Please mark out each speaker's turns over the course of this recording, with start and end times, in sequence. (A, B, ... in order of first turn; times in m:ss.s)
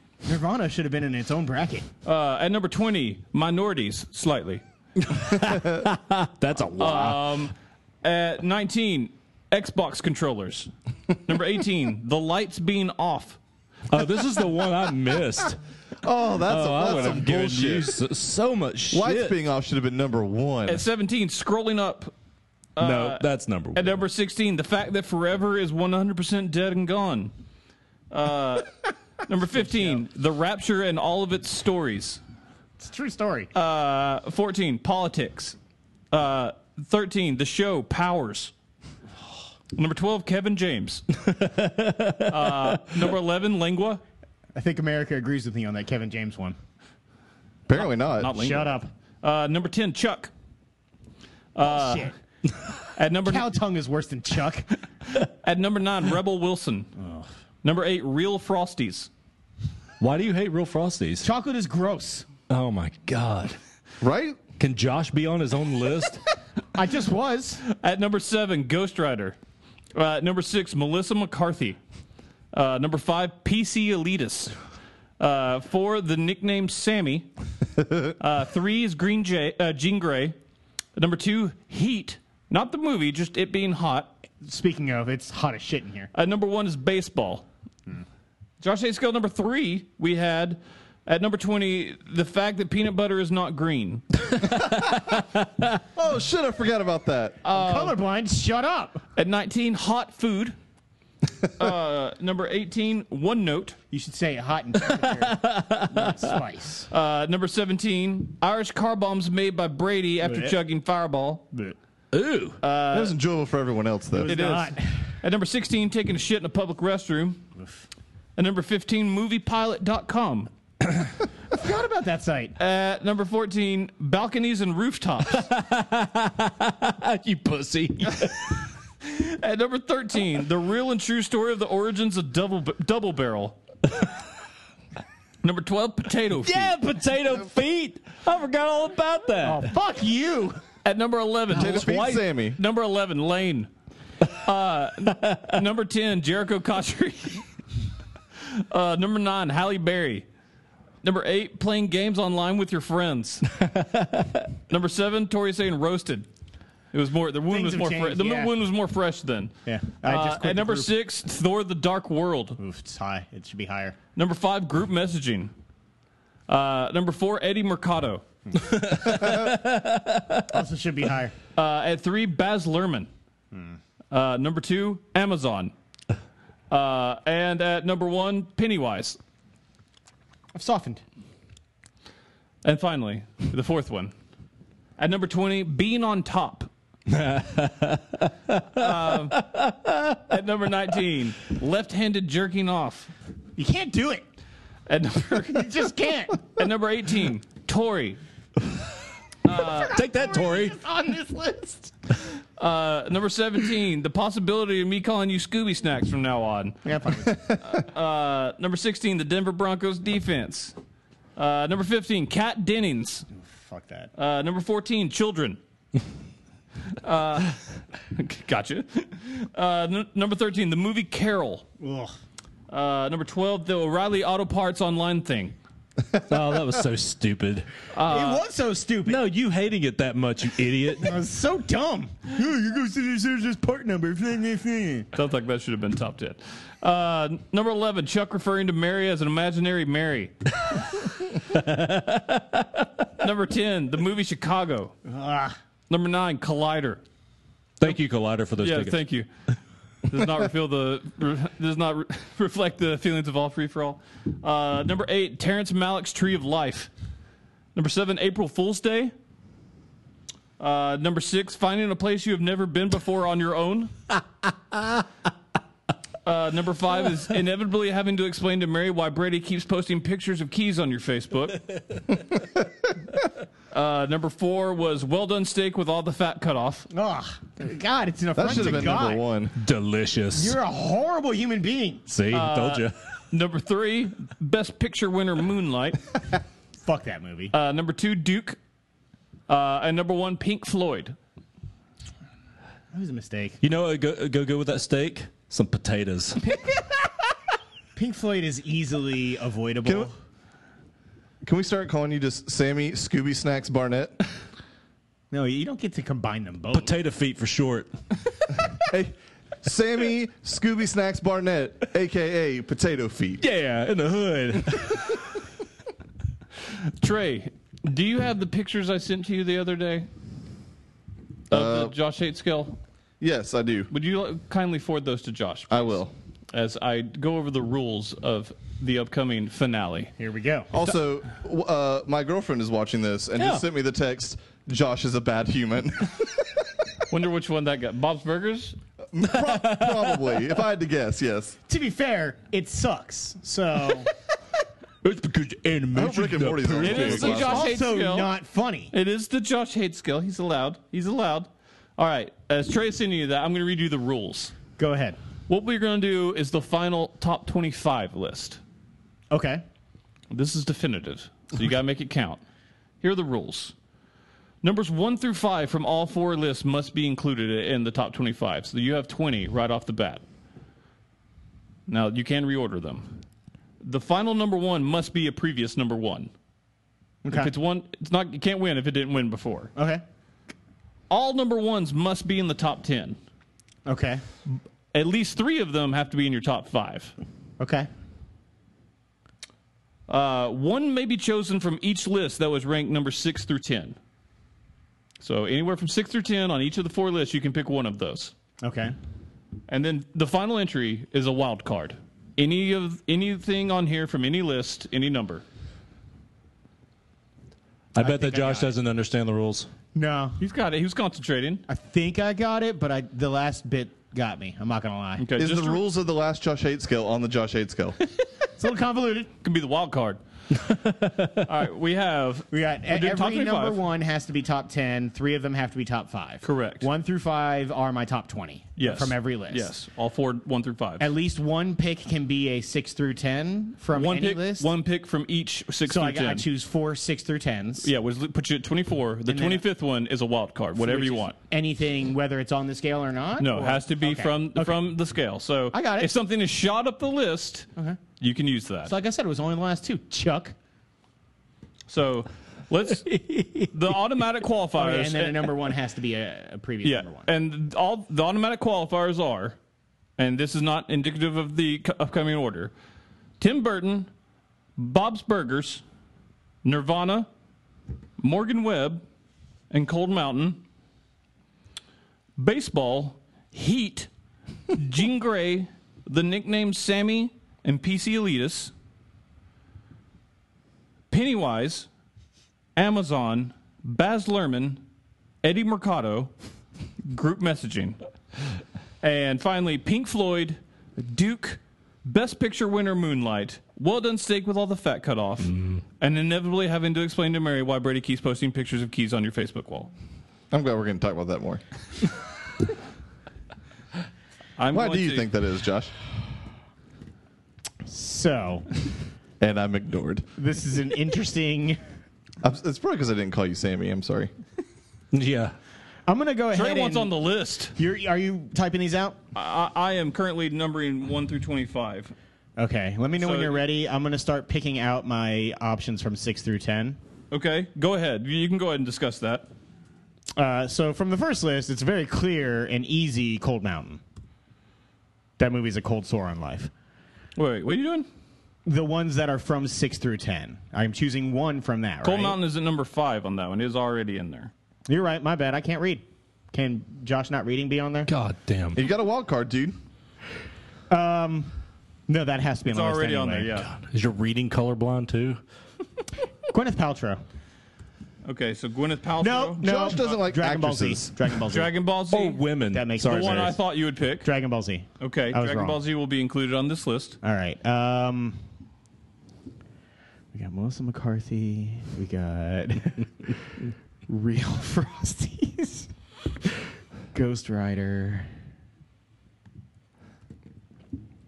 0:00.2-0:01.9 A
0:02.0-0:04.6 B
0:05.0-0:07.4 C
0:06.8-0:10.7 B
0:11.2-0:13.4 B
0:13.9-0:15.6 C
0:16.0-0:18.0 D
0:16.4-0:19.4 C
0:18.9-0:20.8 D
0:20.7-0:22.1 B
0:22.8-0:27.3 B
0:22.8-0:24.0 C
0:28.1-0:28.7 B
0:29.3-0:32.2 B
0:32.8-0:33.5 A
0:33.5-0:35.6 B
0:36.1-0:38.5 B
0:39.7-0:41.0 B
0:41.2-0:42.8 C
0:42.3-0:44.0 B
0:44.5-0:46.6 A
0:47.7-0:48.5 D
0:48.2-0:50.3 B
0:48.3-0:48.9 A
0:51.5-0:52.1 B
0:51.6-0:52.2 A
0:53.0-0:53.5 B
0:53.2-0:54.7 A
0:55.2-0:56.9 B
0:57.0-0:57.3 A
0:57.6-0:59.1 B
1:00.0-1:01.3 C
1:01.2-1:02.3 A
1:02.5-1:03.6 C
1:04.0-1:04.4 D
1:04.6-1:06.2 C
1:06.7-1:07.6 A
1:07.7-1:09.4 B
1:09.9-1:11.8 B
1:12.5-1:14.5 B
1:15.2-1:17.3 B
1:18.2-1:20.4 B
1:21.0-1:24.2 B
1:24.4-1:26.1 A
1:26.1-1:27.4 B
1:28.6-1:34.0 B
1:34.4-1:35.4 C
1:35.9-1:37.4 D
1:37.4-1:38.0 B
1:37.5-1:39.0 A
1:39.2-1:40.5 B
1:41.6-1:43.8 B
1:43.9-1:46.9 A
1:44.9-1:46.3 C
1:46.9-1:51.5 B
1:50.2-1:50.6 A
1:52.1-1:52.6 C
1:52.6-1:53.2 B
1:52.9-1:54.4 D
1:54.1-1:55.1 A
1:54.2-1:57.4 B
1:58.4-2:00.5 B
2:01.5-2:02.6 A
2:02.6-2:05.5 B
2:05.3-2:08.6 C
2:09.0-2:13.6 B
2:15.4-2:16.7 B
2:16.4-2:19.7 C
2:19.4-2:20.6 A
2:20.8-2:23.7 B
2:21.5-2:22.6 D
2:24.3-2:27.5 B
2:25.2-2:25.5 C
2:28.4-2:30.2 B
2:31.0-2:33.5 B
2:33.8-2:34.4 C
2:34.7-2:36.3 B
2:36.9-2:42.6 B
2:37.5-2:38.5 A
2:39.6-2:40.9 A
2:42.6-2:44.0 A
2:44.2-2:45.5 B
2:46.5-2:48.2 B
2:48.5-2:49.1 A
2:48.6-2:50.4 C
2:50.5-2:51.3 A
2:51.5-2:53.1 B
2:53.5-2:53.8 A
2:54.1-2:55.7 B
2:56.7-2:59.2 B
3:00.5-3:01.0 A
3:02.6-3:04.1 B
3:05.0-3:06.7 B
3:07.1-3:10.2 C
3:08.7-3:09.4 B
3:10.3-3:13.1 B
3:13.6-3:14.2 A
3:14.9-3:15.7 B
3:15.4-3:16.5 A
3:16.4-3:18.2 B
3:19.4-3:20.0 B
3:19.6-3:21.9 A
3:19.9-3:20.8 C
3:22.6-3:26.8 B
3:26.8-3:27.6 A
3:27.6-3:30.8 B
3:31.4-3:33.3 B
3:33.3-3:34.1 A
3:34.1-3:35.6 B
3:37.0-3:37.6 B
3:38.1-3:41.6 B
3:41.8-3:42.1 A
3:42.7-3:45.5 B
3:46.1-3:47.7 C
3:47.9-3:48.4 B
3:48.0-3:49.2 A
3:49.0-3:51.2 C
3:51.0-3:55.1 A
3:55.1-4:00.3 B
4:01.4-4:02.9 C
4:03.2-4:04.9 B
4:05.1-4:05.6 A
4:05.9-4:07.0 B
4:07.8-4:09.0 C
4:08.6-4:09.3 B
4:10.0-4:16.9 B
4:17.7-4:19.1 B
4:20.6-4:23.9 B
4:26.2-4:31.6 B
4:33.7-4:36.9 B
4:36.9-4:39.2 A
4:38.3-4:39.5 D
4:39.6-4:40.6 C
4:40.3-4:42.1 A
4:42.1-4:42.9 C
4:42.3-4:46.0 B
4:46.8-4:47.5 A
4:47.5-4:48.6 B
4:49.5-4:51.2 B
4:52.9-4:53.6 A
4:53.6-4:56.4 C
4:56.4-4:57.1 A
4:57.9-5:00.1 A
4:59.8-5:00.1 D
5:01.4-5:04.1 D
5:05.3-5:06.9 A
5:06.7-5:07.9 C
5:08.8-5:13.4 D
5:13.4-5:15.2 C
5:16.8-5:20.1 B
5:21.5-5:21.9 D
5:21.5-5:22.8 B
5:23.2-5:23.9 D
5:23.9-5:30.1 B
5:25.7-5:26.1 D
5:30.2-5:30.7 A
5:30.7-5:36.5 D
5:33.4-5:33.6 C
5:37.1-5:38.8 B
5:39.1-5:41.6 D
5:39.2-5:40.4 C
5:41.7-5:44.1 A
5:45.0-5:47.5 C
5:45.9-5:47.7 D
5:46.8-5:48.3 B
5:47.2-5:48.9 A
5:48.9-5:54.5 B
5:54.8-5:55.2 A
5:55.5-5:58.6 B
5:59.3-5:59.6 A
6:00.3-6:02.4 B
6:03.0-6:03.7 B
6:04.6-6:10.2 B
6:11.9-6:13.2 B
6:13.8-6:16.3 B
6:17.2-6:17.5 A
6:17.3-6:19.7 B
6:19.8-6:20.0 A
6:21.1-6:23.2 B
6:23.8-6:24.2 A
6:24.9-6:27.1 B
6:27.6-6:27.9 A
6:30.1-6:34.0 B
6:35.2-6:38.3 B
6:38.6-6:38.9 A
6:39.7-6:45.4 B
6:47.9-6:49.7 C
6:48.0-6:48.7 A
6:49.9-6:50.4 A
6:50.4-6:51.6 B
6:51.7-6:55.3 A
6:55.2-6:55.8 B
6:55.4-6:58.0 D
6:58.6-6:59.3 A
6:59.4-7:00.2 B
7:00.6-7:01.4 C
7:01.4-7:03.8 B
7:02.5-7:09.7 A
7:06.4-7:06.9 B
7:08.8-7:11.1 B
7:11.0-7:14.7 A
7:13.9-7:16.4 B
7:15.8-7:17.9 A
7:17.8-7:21.3 B
7:19.3-7:19.6 A
7:20.7-7:24.9 A
7:23.4-7:27.7 B
7:25.7-7:26.1 A
7:28.2-7:28.9 B
7:28.8-7:30.5 A
7:31.9-7:35.5 B
7:33.1-7:33.7 C
7:34.8-7:37.3 A
7:36.8-7:39.6 B
7:40.2-7:42.7 B
7:43.4-7:44.1 B
7:44.8-7:45.8 B
7:46.6-7:47.3 B
7:48.2-7:49.0 B
7:49.7-7:50.6 B
7:52.4-7:54.1 B
7:54.7-7:58.7 B
8:01.1-8:01.9 B
8:02.8-8:04.8 B
8:05.4-8:06.3 B
8:07.0-8:08.0 B
8:09.0-8:19.9 B
8:15.5-8:15.8 C
8:20.5-8:21.6 D
8:24.6-8:25.3 B
8:24.7-8:25.9 D
8:27.8-8:28.7 A
8:29.4-8:30.2 D
8:30.4-8:31.8 A
8:32.4-8:34.3 D
8:35.1-8:35.5 C
8:36.0-8:37.1 A
8:36.5-8:37.8 B
8:37.8-8:39.2 A
8:39.3-8:42.1 B
8:42.6-8:47.0 A
8:43.2-8:43.6 B
8:47.3-8:49.5 B
8:50.4-8:54.0 A
8:55.4-8:56.7 A
8:57.4-8:58.1 B
8:58.6-9:02.4 A
9:02.0-9:04.5 B
9:04.9-9:08.1 A
9:08.1-9:08.8 C
9:08.7-9:09.7 D
9:10.9-9:11.5 A
9:12.1-9:13.6 A
9:12.6-9:13.7 B
9:13.7-9:15.4 C
9:16.5-9:17.2 A
9:18.2-9:19.7 B
9:19.2-9:21.7 A
9:19.6-9:21.1 D
9:21.5-9:22.4 B
9:22.1-9:23.6 C
9:22.7-9:25.8 A
9:23.0-9:24.3 B
9:25.0-9:27.2 B
9:27.2-9:28.4 A
9:30.3-9:35.9 A
9:37.1-9:38.3 A